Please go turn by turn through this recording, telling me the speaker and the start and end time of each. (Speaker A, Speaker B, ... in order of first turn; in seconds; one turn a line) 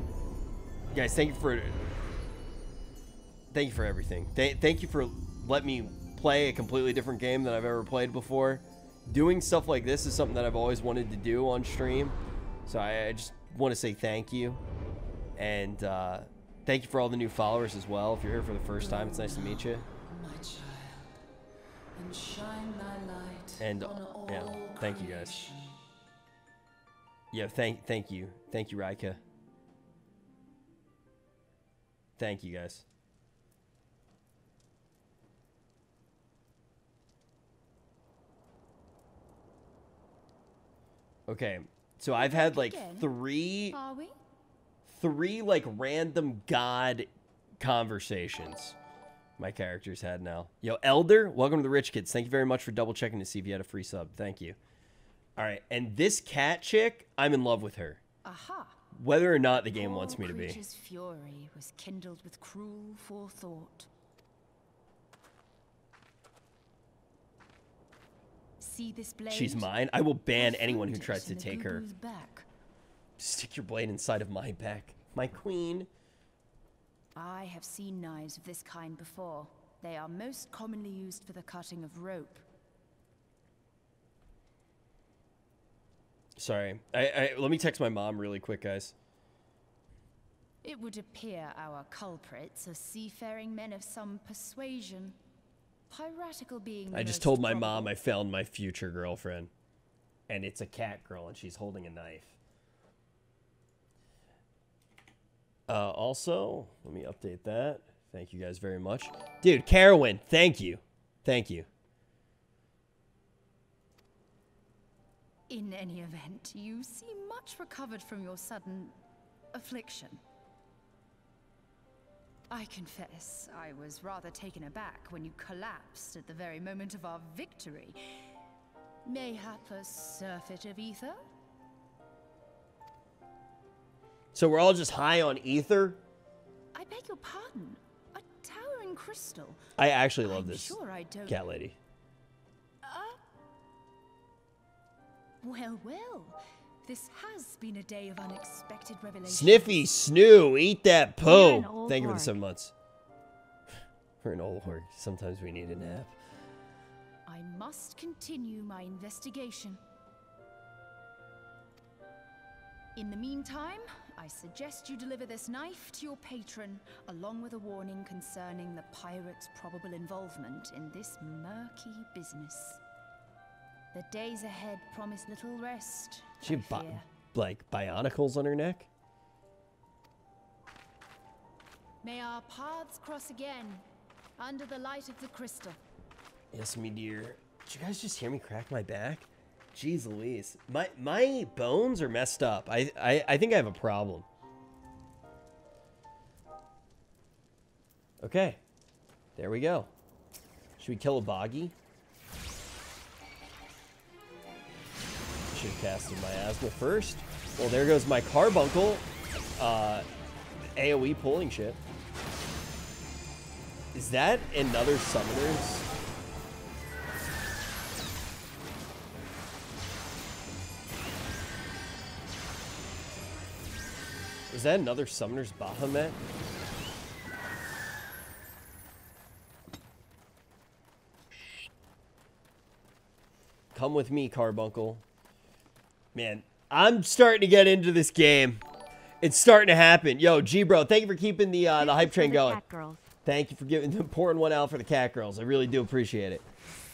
Speaker A: 0.9-1.8
Speaker A: 3.5-14.6
Speaker A: 15.3-19.9
Speaker B: 18.8-21.2
Speaker B: 21.9-25.8
Speaker A: 23.6-25.4
Speaker A: 27.3-29.2
Speaker A: 32.2-32.9
Speaker A: 41.3-43.8
Speaker C: 42.2-43.1
Speaker C: 43.7-44.2
Speaker A: 44.9-47.1
Speaker A: 47.6-48.8
Speaker A: 49.4-54.6
Speaker A: 55.4-58.0
Speaker C: 58.2-58.9
Speaker A: 58.9-60.6
Speaker C: 59.7-63.9
Speaker C: 68.6-69.7
Speaker A: 69.3-71.8
Speaker C: 70.3-72.5
Speaker A: 73.2-75.9
Speaker C: 77.2-82.5
Speaker A: 86.4-88.9
Speaker C: 90.6-95.2
Speaker C: 95.9-98.0
Speaker A: 96.9-99.5
Speaker A: 100.3-102.3
Speaker A: 105.7-111.7
Speaker C: 115.5-119.0
Speaker C: 119.5-120.2
Speaker C: 122.5-128.0
Speaker C: 129.0-131.2
Speaker A: 134.3-136.0
Speaker C: 136.7-139.7
Speaker A: 139.8-141.8
Speaker C: 140.2-141.4
Speaker C: 142.8-143.3
Speaker C: 145.4-149.8
Speaker A: 149.2-152.7
Speaker D: 151.2-152.4
Speaker A: 154.2-156.2
Speaker C: 157.3-159.8
Speaker C: 162.9-172.8
Speaker C: 173.9-177.1
Speaker A: 176.4-178.9
Speaker C: 182.0-183.8
Speaker C: 184.4-185.8
Speaker A: 186.5-194.2
Speaker A: 198.2-198.6
Speaker A: 199.3-199.9
Speaker A: 200.8-201.8
Speaker A: 205.5-209.1
Speaker A: 209.6-210.1
Speaker A: 210.8-211.8
Speaker A: 213.9-215.9
Speaker A: 224.5-226.2
Speaker A: 233.7-235.0
Speaker A: 236.1-238.6
Speaker A: 239.2-242.6
Speaker D: 241.8-243.0
Speaker A: 243.2-246.4